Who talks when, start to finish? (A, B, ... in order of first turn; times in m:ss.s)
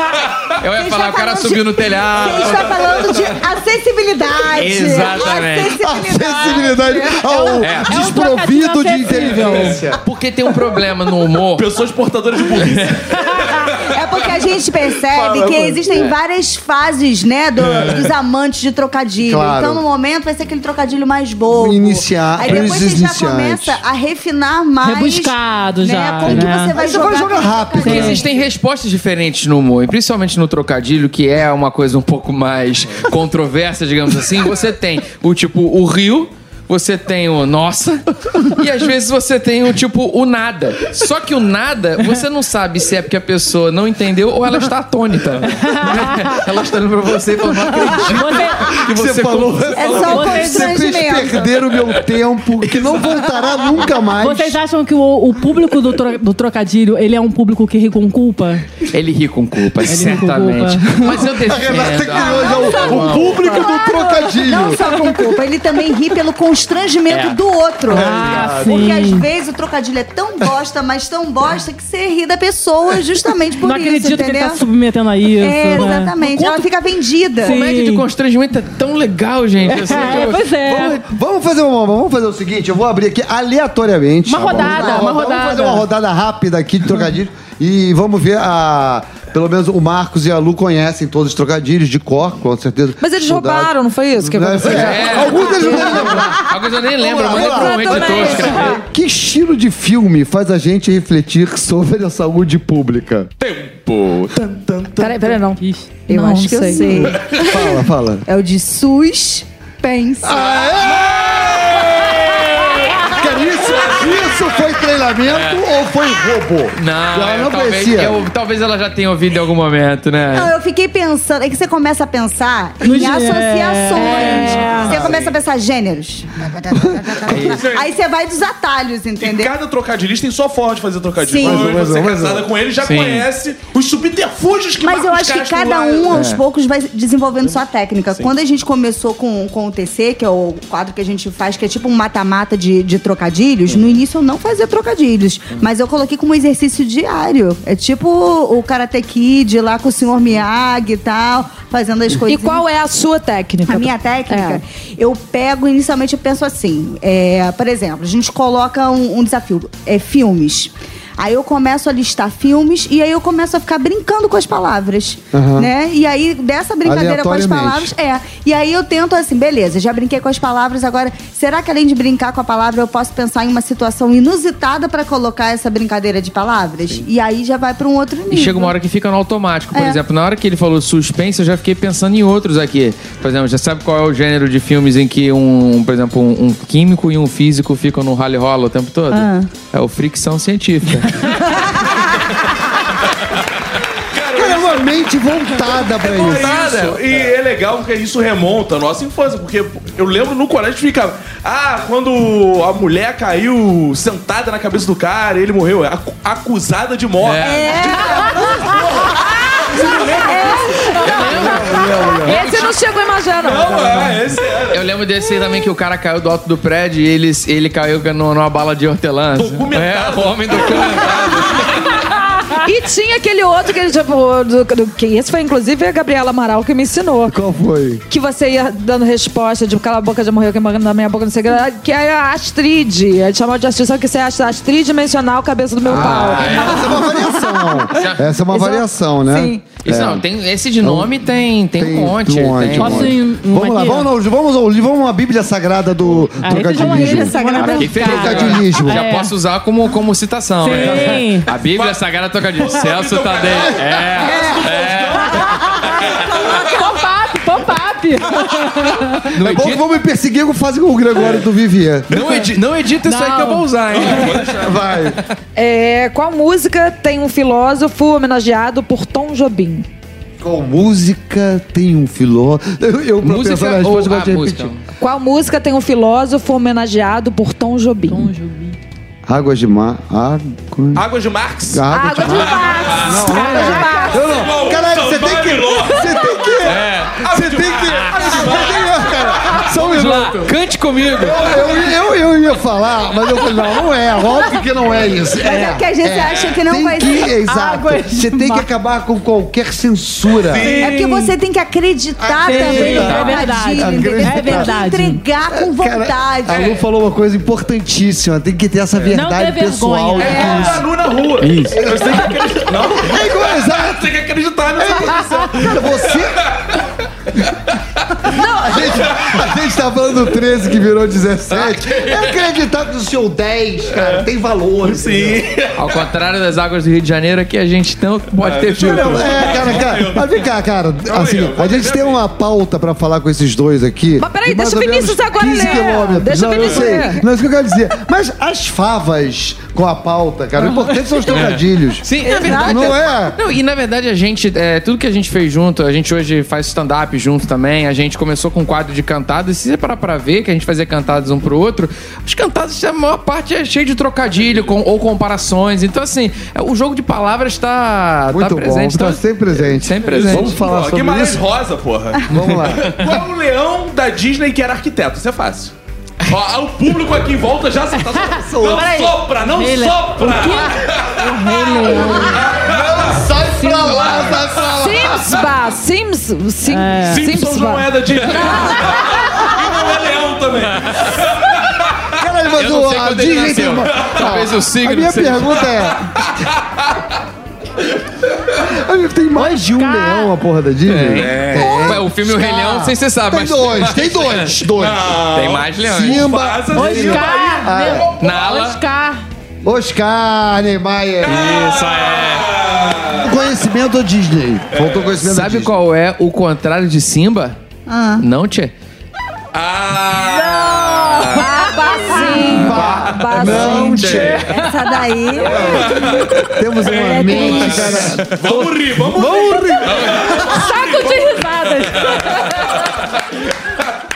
0:00.4-0:03.0 A
0:00.6-0:07.7 B
0:02.2-0:03.4 C
0:04.6-0:05.8 A
0:05.8-0:10.0 D
0:07.6-0:08.0 A
0:07.8-0:09.8 E
0:09.2-0:11.7 A
0:11.5-0:14.4 C
0:12.5-0:13.7 A
0:13.8-0:28.4 B
0:15.0-0:15.8 C
0:19.2-0:19.8 D
0:21.5-0:23.8 D
0:22.4-0:22.8 E
0:24.8-0:26.8 E
0:26.3-0:28.2 D
0:27.8-0:28.2 E
0:27.8-0:49.9 A
0:45.6-0:46.4 E
0:47.7-0:54.6 D
0:47.8-0:48.8 E
0:49.8-0:51.6 B
0:49.9-0:50.9 E
0:52.6-0:53.6 A
0:54.2-0:58.7 E
0:58.9-1:03.4 A
0:59.9-1:01.3 E
0:59.9-1:00.2 D
1:01.0-1:04.8 D
1:02.2-1:14.6 B
1:02.3-1:04.0 E
1:04.7-1:05.0 E
1:07.1-1:07.4 A
1:07.9-1:08.7 D
1:07.9-1:09.3 E
1:13.6-1:16.7 E
1:15.4-1:17.6 B
1:17.4-1:18.1 E
1:17.4-1:20.5 A
1:19.7-1:21.0 E
1:19.9-1:43.3 D
1:24.3-1:25.9 E
1:24.6-1:25.1 B
1:33.0-1:36.1 F
1:34.6-1:38.8 A
1:35.4-1:35.8 B
1:37.4-1:38.8 E
1:43.4-1:45.4 C
1:45.0-1:47.6 F
1:45.6-1:46.0 E
1:46.1-1:50.6 B
1:46.7-1:47.0 E
1:47.1-1:47.5 C
1:47.3-1:48.2 D
1:50.2-1:58.2 D
1:52.8-1:53.9 E
1:53.8-1:54.1 C
1:55.3-1:55.6 A
1:56.8-2:00.5 A
2:00.3-2:09.5 B
2:02.8-2:05.0 E
2:04.7-2:05.3 C
2:04.8-2:05.2 A
2:04.8-2:05.2 D
2:06.7-2:07.2 D
2:07.3-2:07.7 A
2:07.3-2:07.9 C
2:09.2-2:16.2 C
2:11.2-2:11.8 B
2:11.4-2:12.5 D
2:12.8-2:13.3 A
2:14.8-2:32.6 B
2:16.1-2:16.4 A
2:32.3-2:34.6 F
2:33.7-2:58.7 B
2:45.3-2:45.7 D
2:46.8-2:47.9 D
2:58.3-3:11.4 A
2:59.7-3:00.0 B
3:09.1-3:09.5 B
3:11.5-3:12.2 B
3:14.1-3:15.0 C
3:14.3-3:16.6 D
3:16.0-3:31.0 C
3:16.0-3:17.1 A
3:27.2-3:28.2 A
3:27.4-3:31.1 B
3:29.7-3:31.6 F
3:31.0-3:32.8 A
3:31.2-3:32.4 D
3:32.2-3:34.3 F
3:33.4-3:34.9 C
3:34.7-3:41.9 A
3:39.4-3:41.7 C
3:42.5-3:47.4 F
3:47.3-3:48.0 D
3:48.1-3:59.6 F
3:55.8-3:57.0 A
3:55.9-4:00.2 D
3:57.9-3:58.2 A
3:59.8-4:03.2 A
4:00.8-4:01.2 D
4:01.8-4:09.0 D
4:02.8-4:04.1 E
4:06.4-4:09.3 E
4:06.6-4:08.4 B
4:07.6-4:15.6 A
4:10.6-4:11.5 E
4:11.5-4:12.0 C
4:12.6-4:16.4 C
4:14.2-4:14.6 B
4:15.2-4:19.4 E
4:16.0-4:17.0 B
4:19.3-4:19.8 A
4:19.4-4:22.2 D
4:22.1-4:24.6 A
4:23.0-4:24.4 E
4:23.9-4:24.9 C
4:24.6-4:25.2 D
4:25.6-4:29.9 F
4:30.4-4:34.7 D
4:33.2-4:34.8 A
4:35.0-4:38.3 F
4:38.1-4:38.8 E
4:39.3-4:41.0 D
4:41.0-4:49.9 C
4:41.7-4:50.6 D
4:41.9-4:44.4 F
4:43.3-4:44.1 E
4:46.6-4:47.2 A
4:49.6-4:51.5 A
4:51.2-5:00.8 D
4:51.2-4:51.8 C
4:55.4-4:57.3 B
4:57.4-4:58.7 E
5:00.4-5:01.2 C
5:00.6-5:01.3 E
5:00.7-5:06.8 B
5:02.2-5:04.7 D
5:02.4-5:05.2 E
5:05.5-5:10.8 D
5:06.5-5:06.8 C
5:09.1-5:10.9 E
5:10.2-5:16.8 C
5:10.2-5:10.6 B
5:11.4-5:11.7 A
5:11.5-5:14.1 D
5:14.8-5:16.4 D
5:18.3-5:18.9 F
5:18.3-5:25.4 D
5:19.1-5:19.4 C
5:23.9-5:24.2 C
5:24.8-5:25.9 C
5:25.8-5:29.8 A
5:28.4-5:30.5 C
5:28.8-5:43.4 D
5:31.1-5:32.2 C
5:34.2-5:37.2 F
5:36.6-5:37.0 C
5:41.3-6:00.6 A
5:42.2-5:43.0 B
5:54.4-5:54.7 C
5:58.3-6:01.4 D
6:00.0-6:05.7 C
6:02.3-6:03.2 D
6:02.3-6:03.0 A
6:06.3-6:11.3 C
6:08.1-6:12.6 E
6:08.4-6:09.0 D
6:12.3-6:13.2 C
6:12.5-6:15.5 D
6:13.6-6:14.4 E
6:13.9-6:14.6 C
6:14.6-6:19.0 F
6:16.7-6:17.3 E
6:17.0-6:22.1 C
6:22.1-6:26.3 D
6:22.6-6:25.7 A
6:24.0-6:24.2 C
6:28.6-6:35.2 D
6:29.4-6:30.4 E
6:30.9-6:34.6 A
6:31.1-6:31.9 C
6:34.7-6:38.2 C
6:35.3-6:36.3 A
6:35.9-6:38.1 D
6:36.7-6:39.2 E
6:38.2-6:38.8 A
6:39.6-6:41.6 D
6:41.2-6:43.3 C
6:41.2-6:42.6 A
6:43.0-6:45.7 D
6:44.7-6:45.2 C
6:45.2-6:47.6 A
6:47.9-6:48.2 B
6:48.2-6:48.7 A
6:49.5-6:51.5 C
6:50.3-6:52.6 E
6:51.2-6:54.1 F
6:51.9-6:52.7 B
6:52.5-6:54.5 D
6:52.6-6:54.5 A
6:53.5-6:56.0 B
6:54.0-6:54.5 C
6:55.5-7:00.6 D
6:55.5-7:03.8 C
6:56.9-6:58.1 B
6:59.4-7:02.9 E
6:59.9-7:00.3 A